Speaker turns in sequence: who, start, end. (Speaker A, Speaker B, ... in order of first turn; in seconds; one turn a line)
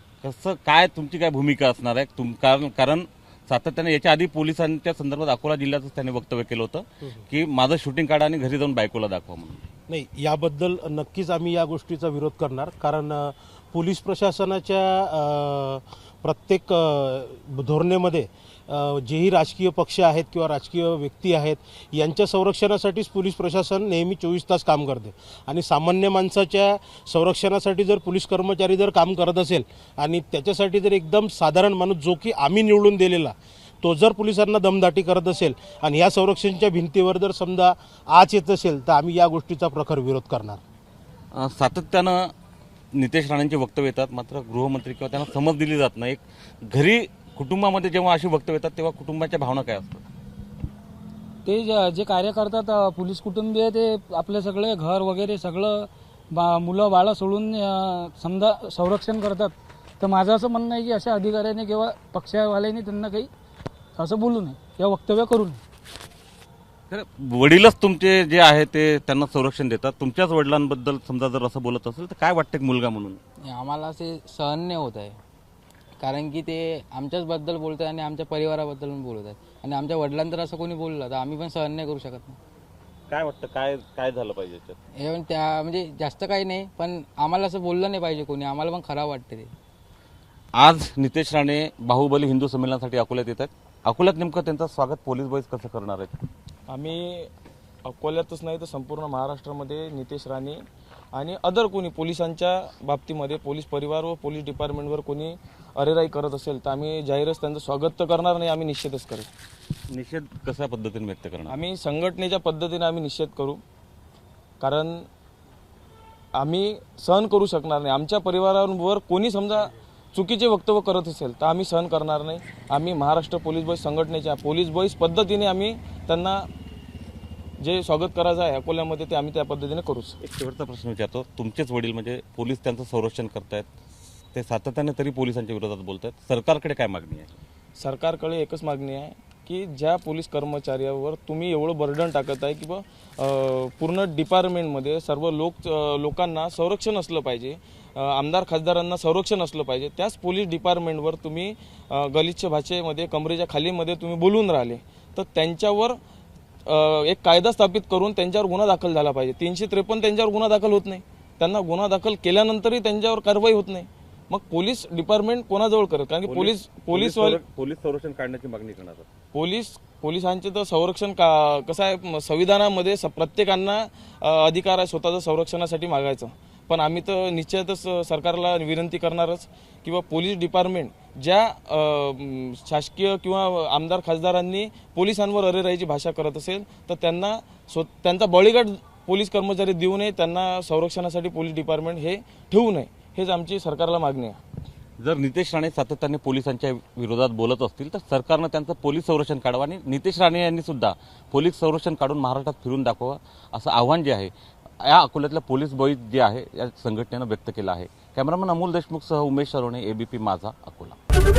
Speaker A: 0.2-9.6
Speaker B: 9.9-40.6
Speaker A: 41.3-42.2
Speaker A: 43.0-50.0
Speaker C: 51.4-63.3
Speaker C: 64.0-65.6
Speaker A: 66.9-73.2
Speaker D: 73.4-75.2
Speaker D: 76.0-82.4
Speaker A: 83.1-84.8
Speaker D: 85.0-89.5
Speaker A: 90.6-96.1
Speaker E: 96.7-97.3
Speaker E: 97.8-100.6
Speaker E: 101.1-109.3
Speaker A: 109.9-111.5
Speaker E: 111.5-113.6
Speaker E: 114.6-115.0
Speaker E: 116.3-126.5
Speaker E: 127.6-130.2
Speaker A: 130.2-133.7
Speaker A: 134.3-137.3
Speaker E: 137.8-156.0
Speaker E: 156.7-167.4
Speaker A: 166.2-169.0
Speaker E: 169.3-194.4
Speaker A: 195.0-210.9